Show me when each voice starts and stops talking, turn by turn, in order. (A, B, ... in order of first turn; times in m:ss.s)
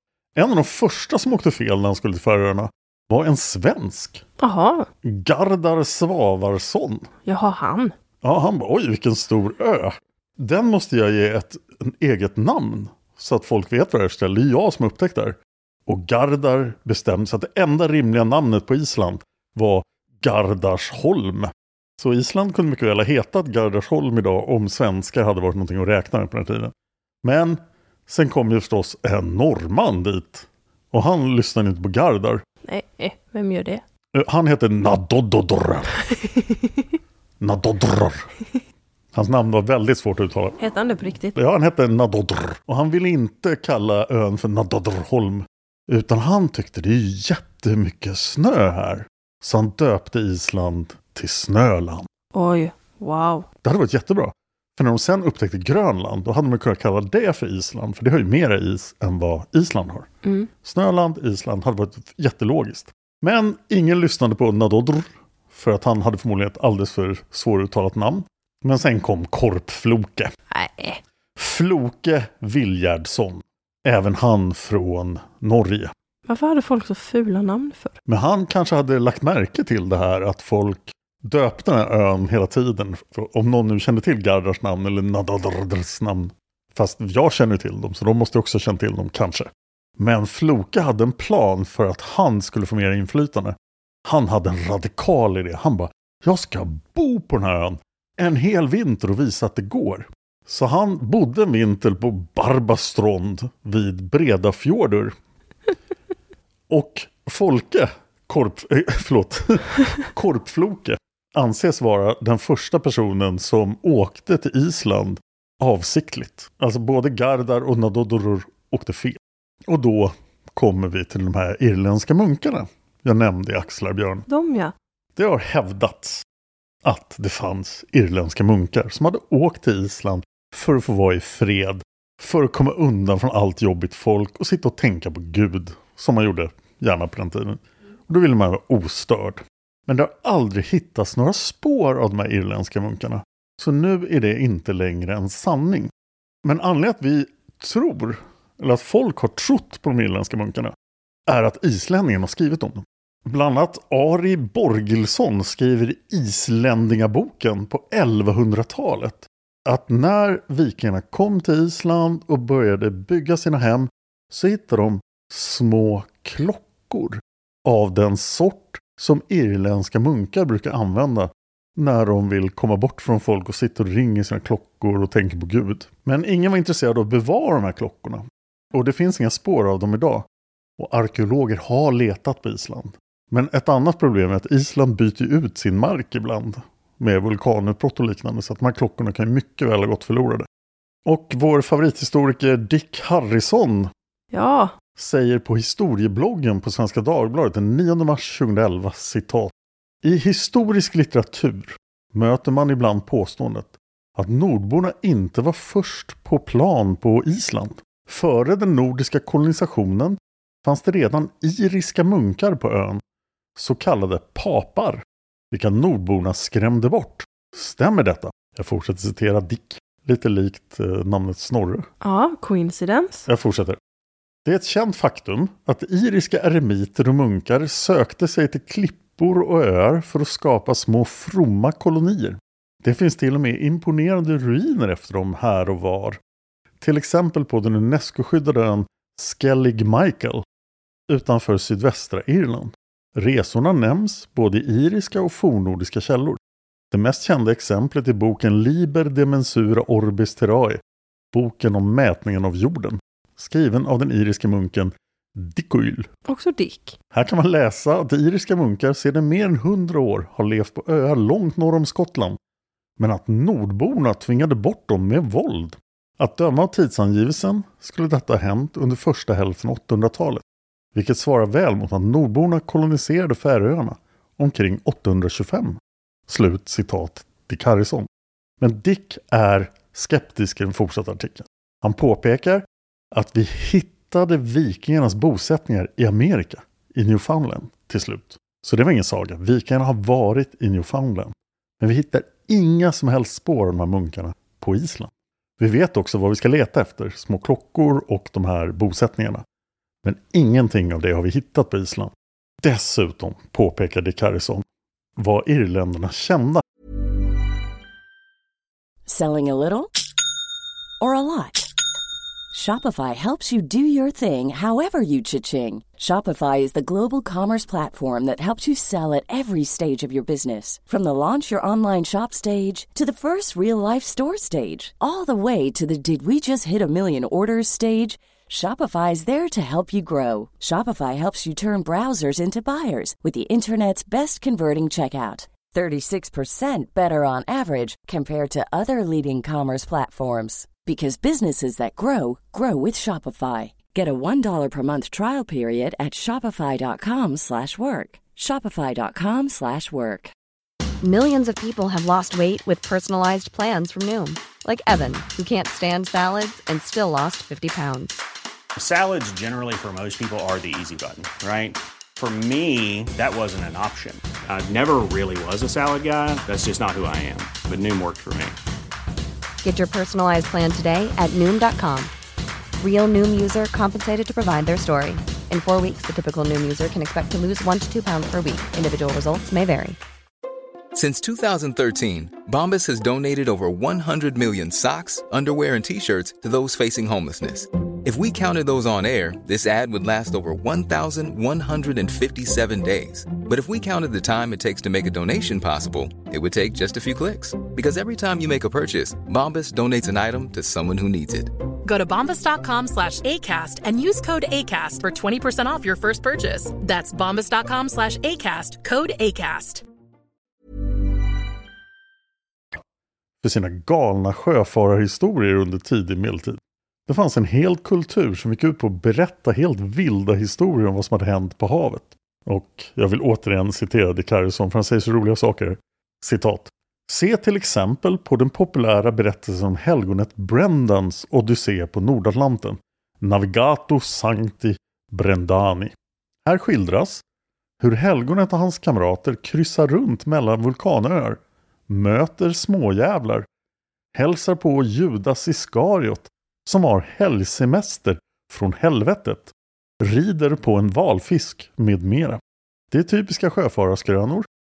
0:00.4-0:04.2 A
0:04.4-0:04.9 B
0:05.0-0:07.1 A
0:07.2-0:07.9 B
0:08.2-0:32.4 A
0:32.6-0:33.8 B
0:34.1-0:35.9 A
0:36.1-0:36.8 B
0:37.4-0:38.3 A
0:39.1-0:40.6 A
0:40.6-0:41.4 B
0:41.4-0:52.1 A
0:52.3-0:53.5 B
0:53.6-1:00.1 A
1:00.2-1:00.5 B
1:00.6-1:10.3 A
1:10.5-1:11.0 B
1:11.4-1:15.9 A
1:16.3-1:18.0 B
1:18.1-1:45.2 A
1:46.7-2:04.2 A
2:04.3-2:04.7 B
2:05.2-2:06.2 A
2:06.8-2:25.9 A
2:26.4-2:30.8 A
2:31.3-3:00.3 A
3:00.8-3:10.5 A
3:11.0-3:13.9 A
3:14.3-3:14.8 B
3:15.0-3:33.0 A
3:33.6-3:41.9 A
3:42.0-3:43.3 B
3:43.3-3:43.8 A
3:44.4-3:56.2 A
3:56.8-4:00.4 A
4:01.1-4:06.4 A
4:06.9-4:10.8 A
4:11.3-4:16.1 A
4:16.3-4:17.0 B
4:17.1-4:22.4 A
4:23.0-4:30.4 A
4:31.0-4:38.1 A
4:38.6-4:59.4 A
5:00.0-5:04.6 A
5:05.2-5:06.6 A
5:09.1-5:09.9 C
5:11.0-5:11.7 C
5:12.5-5:50.3 C
5:51.0-5:58.2 D
5:58.8-6:08.6 E
6:09.6-6:12.1 D
6:12.8-6:20.0 D
6:20.9-6:41.5 F
6:41.8-6:49.8 G
6:53.4-7:15.9 A
7:16.5-7:17.2 A
7:17.8-7:23.5 A
7:24.1-7:32.4 A
7:32.9-7:34.5 A